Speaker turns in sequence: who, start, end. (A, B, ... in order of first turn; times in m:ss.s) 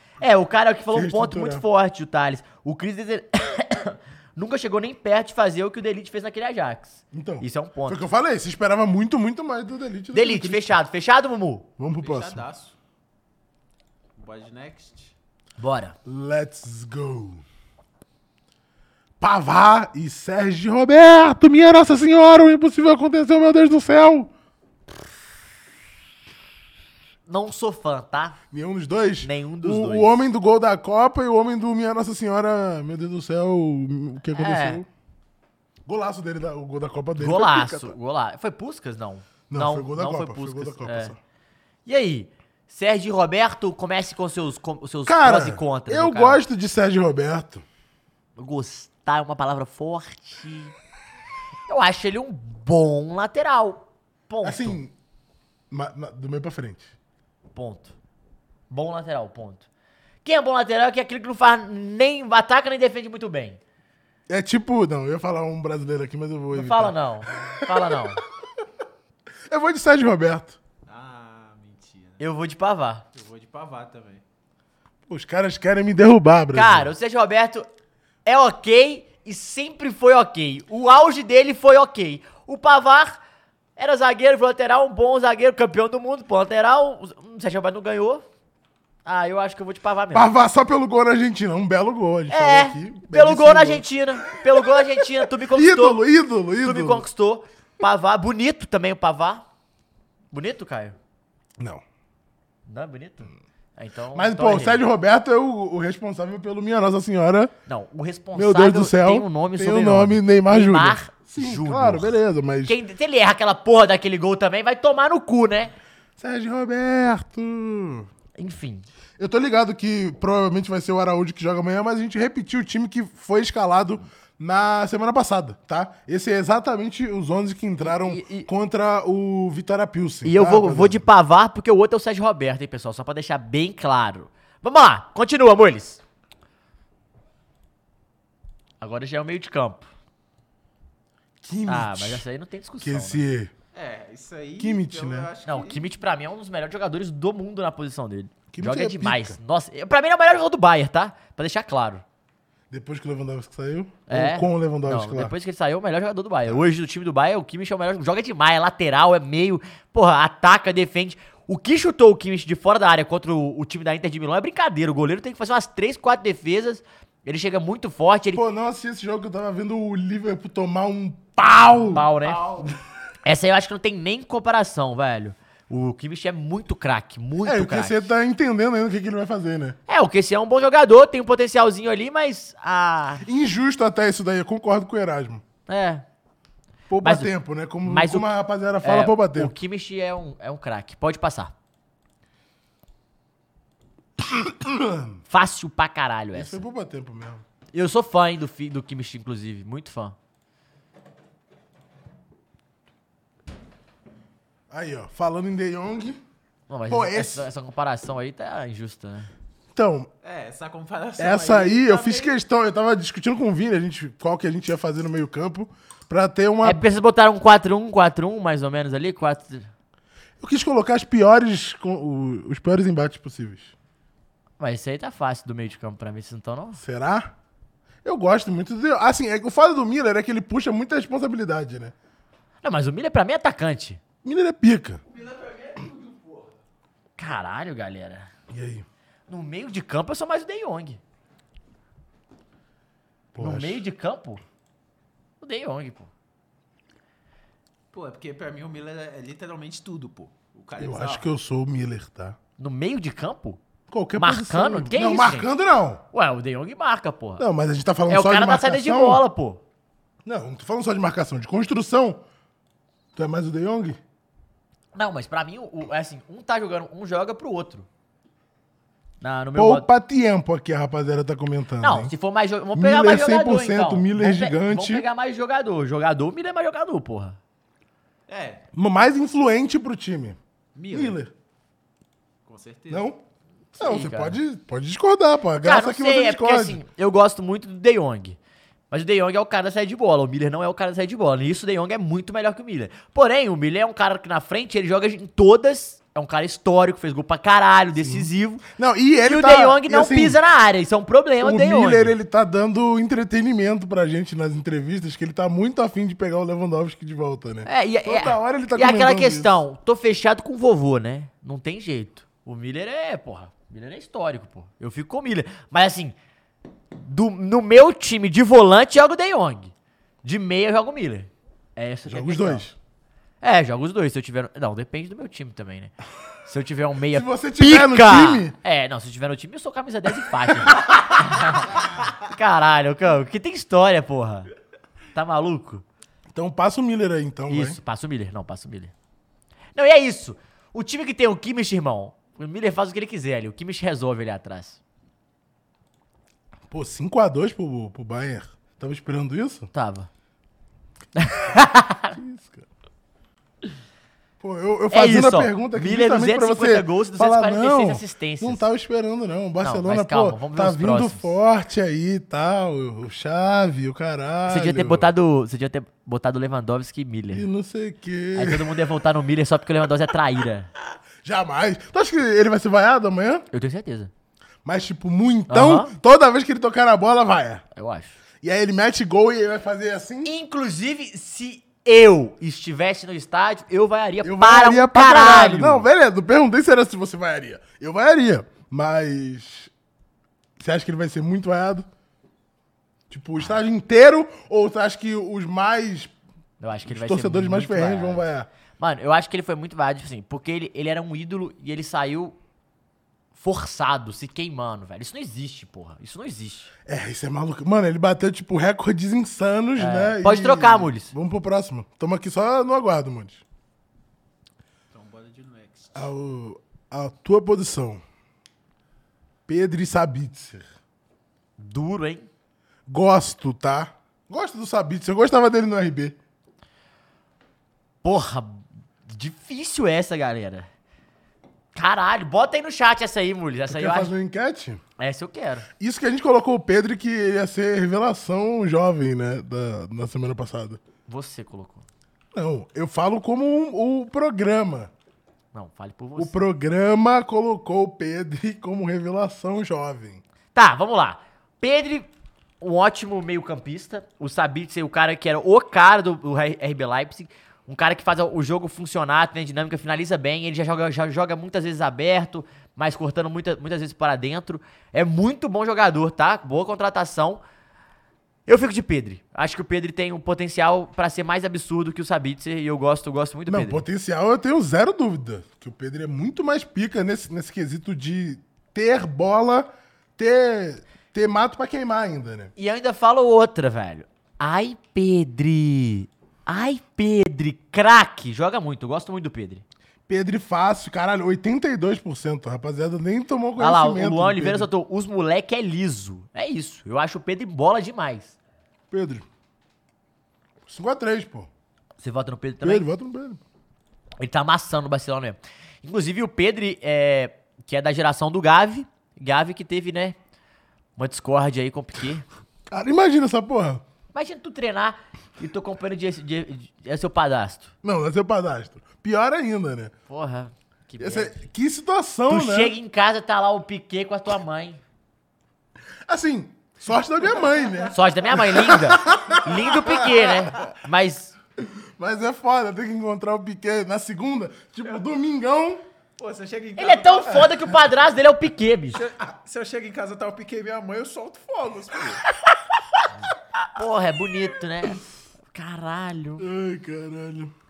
0:00.2-0:08.0 A
0:00.9-0:01.6 B
0:07.1-0:10.8 B
0:10.1-0:11.7 A
0:11.8-0:12.4 B
0:12.0-0:12.7 C
0:14.2-0:15.1 C
0:15.6-0:16.0 A
0:16.0-0:17.4 B
0:19.2-0:24.3 B
0:27.3-0:28.4 A
0:28.5-0:34.9 B
0:29.2-0:30.2 A
0:34.3-0:34.8 A
0:35.8-0:37.9 B
0:37.2-0:41.1 A
0:39.5-0:41.2 B
0:41.8-0:46.4 A
0:45.0-0:47.6 B
0:48.4-0:50.7 A
0:51.7-0:54.8 A
0:54.4-0:54.9 B
0:55.7-0:56.9 B
0:57.5-0:57.9 A
0:58.7-0:59.6 A
1:00.2-1:03.6 A
1:04.3-1:08.2 B
1:06.5-1:08.2 A
1:09.5-1:10.6 B
1:10.9-1:12.2 C
1:12.2-1:13.0 A
1:13.1-1:14.2 C
1:15.1-1:16.9 B
1:16.5-1:17.7 A
1:18.2-1:23.2 A
1:23.8-1:28.2 A
1:29.0-1:30.3 A
1:30.1-1:33.9 B
1:32.3-1:36.0 A
1:34.6-1:37.0 B
1:36.6-1:39.4 A
1:40.3-1:41.0 A
1:42.6-1:44.8 A
1:44.1-1:47.5 B
1:47.7-1:55.7 A
1:48.3-1:52.8 B
1:56.2-1:58.1 B
1:58.4-1:58.8 A
1:59.2-2:11.0 B
2:07.8-2:08.5 A
2:10.2-2:16.0 A
2:18.8-2:19.9 A
2:21.4-2:22.2 B
2:21.7-2:23.2 A
2:22.8-2:23.5 B
2:23.7-2:26.0 C
2:24.6-2:25.3 B
2:25.4-2:32.0 A
2:28.5-2:29.4 B
2:32.7-2:35.3 B
2:34.1-2:48.4 A
2:48.3-2:52.0 B
2:51.9-2:52.4 A
2:52.2-2:52.7 C
2:53.2-2:58.1 A
2:57.4-2:59.8 B
2:59.9-3:03.2 A
3:03.2-3:05.4 B
3:05.7-3:06.0 A
3:06.9-3:09.5 B
3:07.0-3:07.3 A
3:07.8-3:08.3 A
3:08.8-3:11.5 A
3:14.2-3:15.2 B
3:15.3-3:16.6 A
3:16.3-3:17.4 B
3:17.7-3:20.1 A
3:24.7-3:26.2 B
3:26.7-3:29.3 A
3:26.9-3:27.5 B
3:29.7-3:30.1 B
3:30.2-3:32.4 C
3:31.2-3:36.8 B
3:36.6-3:39.7 A
3:40.4-3:43.7 B
3:44.6-3:46.8 A
3:46.8-3:47.3 B
3:48.0-3:51.9 B
3:52.6-3:54.0 A
3:54.2-3:55.0 B
3:55.1-3:56.5 C
3:57.2-3:58.3 A
3:58.5-3:58.8 B
3:59.3-4:01.0 A
4:03.3-4:03.8 B
4:03.4-4:04.4 A
4:05.4-4:06.1 A
4:07.9-4:11.2 C
4:10.8-4:12.4 B
4:12.6-4:13.6 A
4:13.9-4:16.0 B
4:14.2-4:15.5 A
4:16.1-4:17.4 A
4:17.4-4:19.2 B
4:18.1-4:19.6 A
4:20.2-4:22.2 B
4:23.1-4:24.0 B
4:24.9-4:27.9 A
4:29.2-4:29.9 A
4:29.5-4:32.1 B
4:31.8-4:37.4 A
4:32.7-4:35.0 B
4:38.3-4:38.6 C
4:38.7-4:40.4 B
4:40.8-4:41.2 C
4:40.9-4:41.3 B
4:42.4-4:43.1 C
4:42.9-4:43.2 B
4:43.7-4:44.4 A
4:43.8-4:46.8 B
4:45.6-4:48.4 A
4:48.9-4:58.6 A
4:58.0-5:00.4 B
4:59.2-5:02.1 A
5:01.4-5:09.6 B
5:07.6-5:16.1 A
5:16.9-5:19.7 A
5:20.2-5:22.6 A
5:22.1-5:22.7 B
5:23.4-5:25.9 A
5:26.4-5:34.5 A
5:27.1-5:28.6 B
5:35.1-5:35.8 A
5:36.3-5:37.8 B
5:37.5-5:38.9 A
5:39.8-5:44.8 A
5:46.7-5:49.7 B
5:49.7-5:50.1 A
5:51.2-5:52.1 A
5:52.1-5:52.6 B
5:54.4-6:05.1 B
5:54.9-5:58.6 A
5:59.6-6:01.3 A
6:04.5-6:07.4 A
6:07.3-6:08.8 B
6:08.3-6:10.7 A
6:11.2-6:13.4 B
6:13.5-6:14.1 A
6:14.6-6:17.6 B
6:15.5-6:15.9 A
6:17.7-6:18.1 A
6:18.4-6:20.3 B
6:20.2-6:25.8 A
6:24.2-6:29.7 B
6:30.6-6:31.9 B
6:33.1-6:36.1 B
6:36.6-6:38.2 A
6:36.8-6:38.5 B
6:38.8-6:42.4 A
6:43.4-6:46.7 A
6:46.8-6:53.4 B
6:49.8-6:51.1 A
6:54.9-6:56.1 C
6:55.9-6:58.0 B
6:59.5-7:00.7 B
7:01.6-7:02.3 A
7:02.9-7:06.2 B
7:08.0-7:10.7 A
7:11.7-7:14.1 A
7:13.7-7:14.8 B
7:15.0-7:15.7 A
7:15.8-7:20.8 B
7:21.1-7:21.8 A
7:22.3-7:24.9 B
7:25.5-7:26.3 A
7:26.2-7:30.2 B
7:30.5-7:32.1 A
7:32.6-7:47.4 A
7:48.5-7:53.8 A
7:53.5-8:02.5 B
8:02.6-8:09.6 A
8:10.1-8:14.7 B
8:13.6-8:18.4 A
8:18.9-8:19.2 B
8:20.6-8:21.5 B
8:22.0-8:22.9 A
8:22.6-8:23.4 B
8:24.2-8:30.2 A
8:31.0-8:32.2 A
8:32.7-8:33.8 B
8:34.1-8:37.7 A
8:37.8-8:39.9 B
8:40.1-8:41.3 A
8:41.0-8:42.7 B
8:42.3-8:44.8 A
8:46.1-8:50.6 B
8:47.4-8:47.9 C
8:47.9-8:51.3 A
8:51.6-8:55.8 B
8:56.2-8:57.5 C
8:56.8-8:59.0 A
8:58.9-9:02.2 C
9:03.7-9:05.0 A
9:05.5-9:06.4 A
9:06.4-9:07.5 B